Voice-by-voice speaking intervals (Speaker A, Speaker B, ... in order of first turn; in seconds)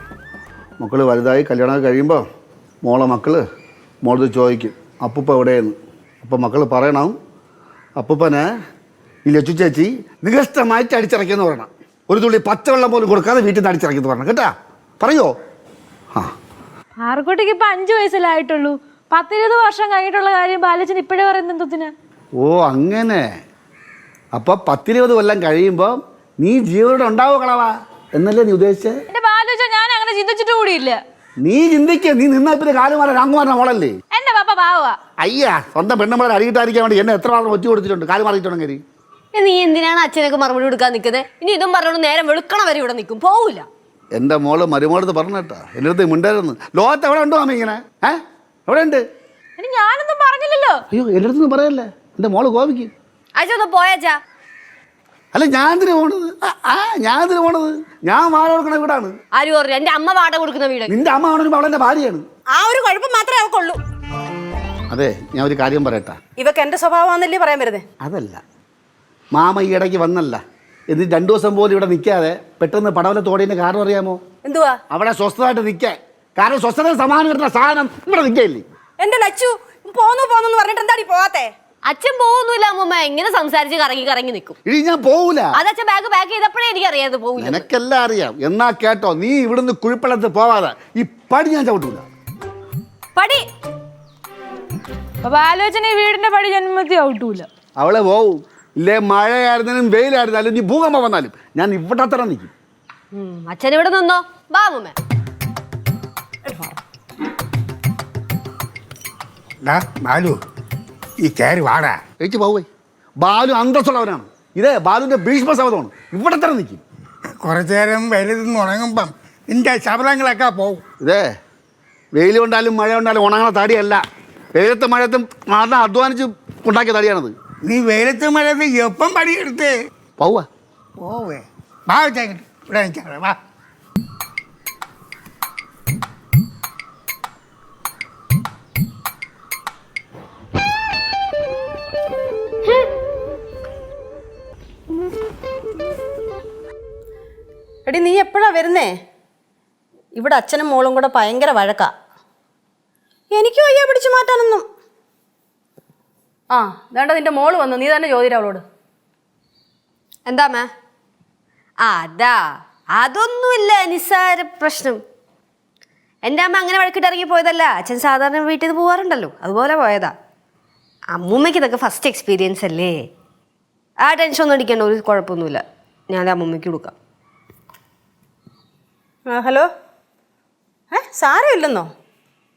Speaker A: 0.8-2.2, 2.8-3.4, 4.0-7.2, 8.0-8.5, 9.2-15.3, 22.4-23.2, 24.3-29.0, 31.4-33.9, 35.2-38.8, 44.1-49.0, 50.9-52.9, 55.3-59.1, 60.9-62.2, 64.9-66.2, 68.0-68.4, 69.3-74.2, 74.9-78.7, 84.6-85.6, 87.4-92.0, 97.8-102.5, 112.2-112.7, 113.2-116.8, 121.0-121.3, 122.1-124.0, 124.5-127.3, 130.2-130.4
Speaker B: 17.0-21.9, 29.1-31.0, 34.1-35.0, 49.6-50.7, 95.2-97.5
Speaker C: 39.3-43.7, 53.4-54.2, 59.4-60.9, 81.8-84.5, 85.5-87.7, 93.2-93.4, 103.1-104.9, 160.2-160.7, 161.8-162.4, 162.9-165.0, 166.2-170.1, 171.1-173.0, 174.0-176.9
Speaker D: 62.5-63.8, 66.4-67.8, 74.5-74.8, 79.0-81.5, 147.9-148.9, 150.2-151.9, 153.4-154.6, 156.5-158.6, 179.3-179.7, 180.9-181.9
Speaker E: 109.6-110.4, 111.2-112.0, 117.4-120.8, 127.7-129.7, 131.0-133.4